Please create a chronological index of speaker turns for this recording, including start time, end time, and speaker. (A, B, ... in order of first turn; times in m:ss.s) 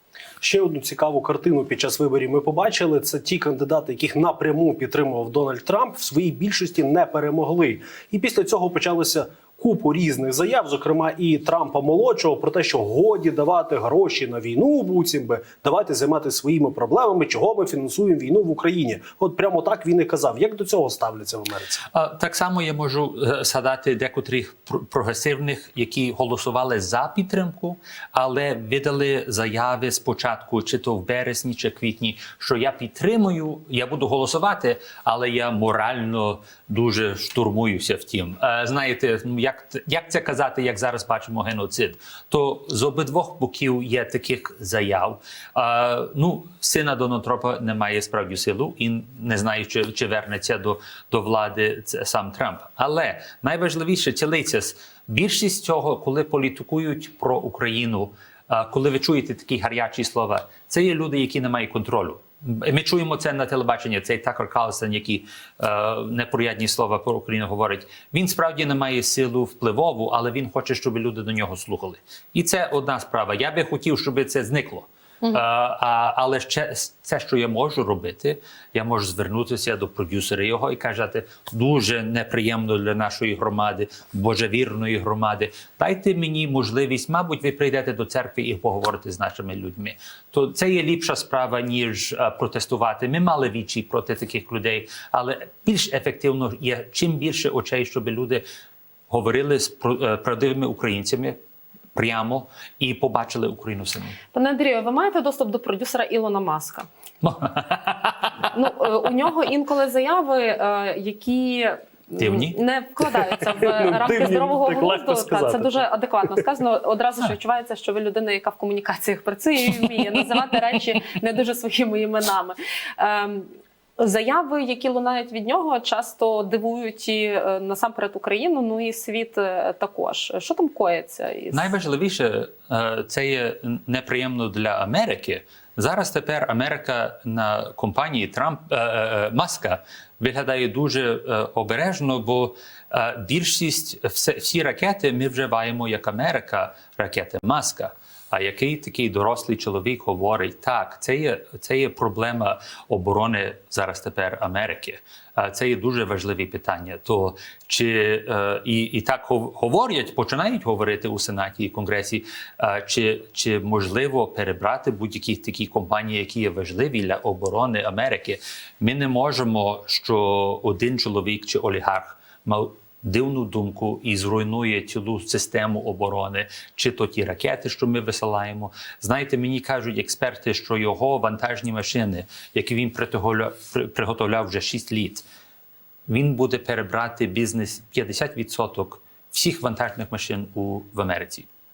0:00.4-0:21.8 A
0:21.9-1:38.4 B
1:39.1-1:41.4 B
1:41.9-1:44.2 B
1:44.3-1:46.9 C
1:47.2-1:48.4 B
1:48.4-2:11.7 C
1:52.2-1:52.6 B
1:54.0-1:55.8 A
2:11.5-3:05.2 B
3:06.1-3:11.5 B